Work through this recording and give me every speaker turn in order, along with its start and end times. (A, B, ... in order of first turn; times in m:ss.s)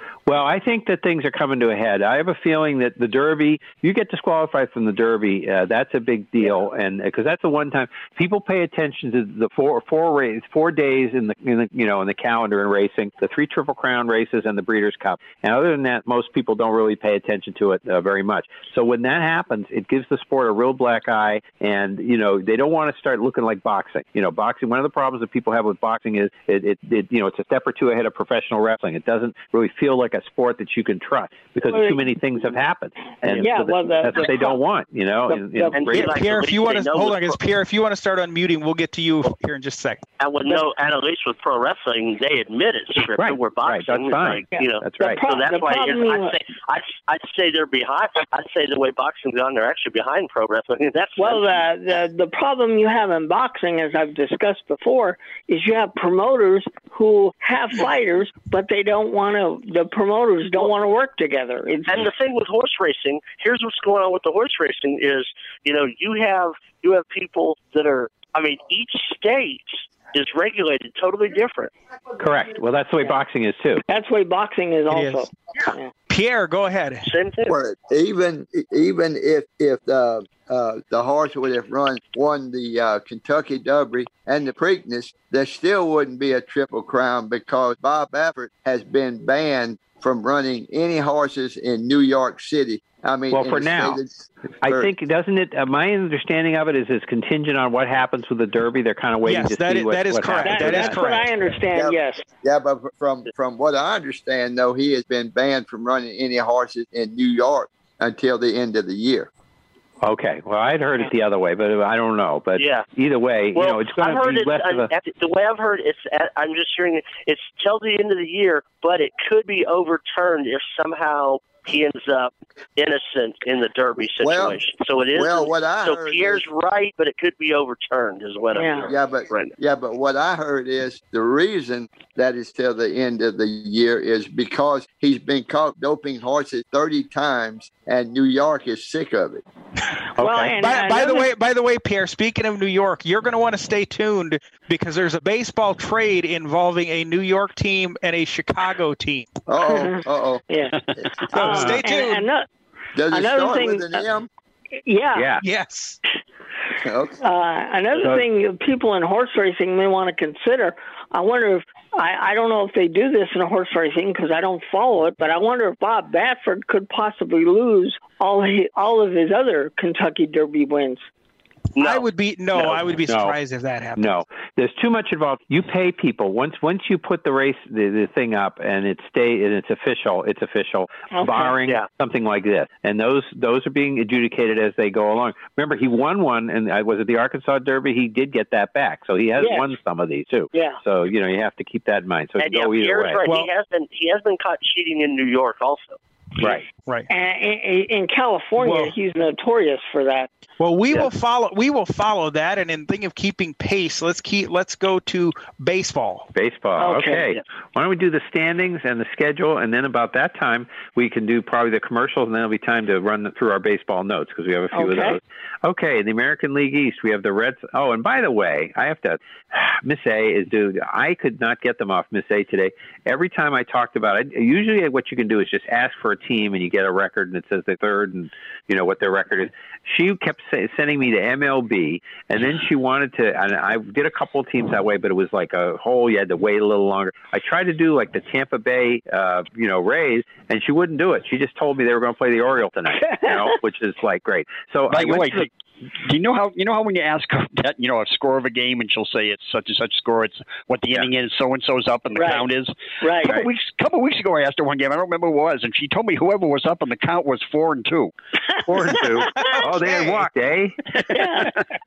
0:00.3-0:36.3 A
0:31.6-0:32.0 B
0:33.3-0:34.6 B
0:35.3-0:35.8 B
0:35.7-0:37.4 C
0:35.9-0:40.0 D
0:40.2-0:51.6 C
0:43.2-0:45.2 A
0:44.5-0:46.3 B
0:51.2-1:02.0 B
1:01.9-1:11.7 C
1:12.2-1:13.8 A
1:13.9-1:15.9 B
1:14.9-1:15.3 D
1:16.1-1:17.1 D
1:17.0-1:17.6 C
1:17.4-1:34.9 E
1:33.3-1:34.0 A
1:34.6-1:41.0 A
1:39.2-1:41.3 D
1:40.4-1:42.2 B
1:41.7-1:49.3 E
1:50.0-1:54.9 A
1:52.6-1:52.8 C
1:53.5-2:09.5 C
2:04.2-2:04.6 E
2:05.1-2:06.4 E
2:08.6-2:08.9 B
2:08.8-2:19.4 E
2:20.2-2:21.3 B
2:20.2-2:20.6 A
2:20.6-2:29.3 D
2:29.5-2:30.4 E
2:29.6-2:30.7 B
2:30.9-2:31.1 F
2:31.3-2:32.3 D
2:31.3-2:32.4 B
2:31.4-2:31.8 A
2:32.9-2:34.3 E
2:33.1-2:34.0 B
2:34.8-2:35.3 B
2:35.1-2:35.4 A
2:35.4-2:36.0 D
2:36.8-2:37.2 E
2:37.2-2:51.0 B
2:51.8-2:52.8 C
2:51.8-2:54.1 D
2:53.0-2:53.4 A
2:54.0-3:13.2 A
3:01.1-3:01.5 B
3:09.4-3:09.7 B
3:10.5-3:10.8 B
3:12.4-3:16.0 C
3:16.4-3:16.7 A
3:16.8-3:17.1 D
3:17.1-3:20.3 B
3:18.6-3:18.9 D
3:20.6-3:26.3 D
3:26.3-4:05.5 A
3:26.8-3:27.3 B
3:34.7-3:35.2 B
4:03.0-4:03.4 B
4:04.9-4:18.1 F
4:12.1-4:12.5 B
4:13.0-4:13.4 B
4:18.6-4:20.8 A
4:19.4-4:20.2 D
4:21.1-4:21.6 B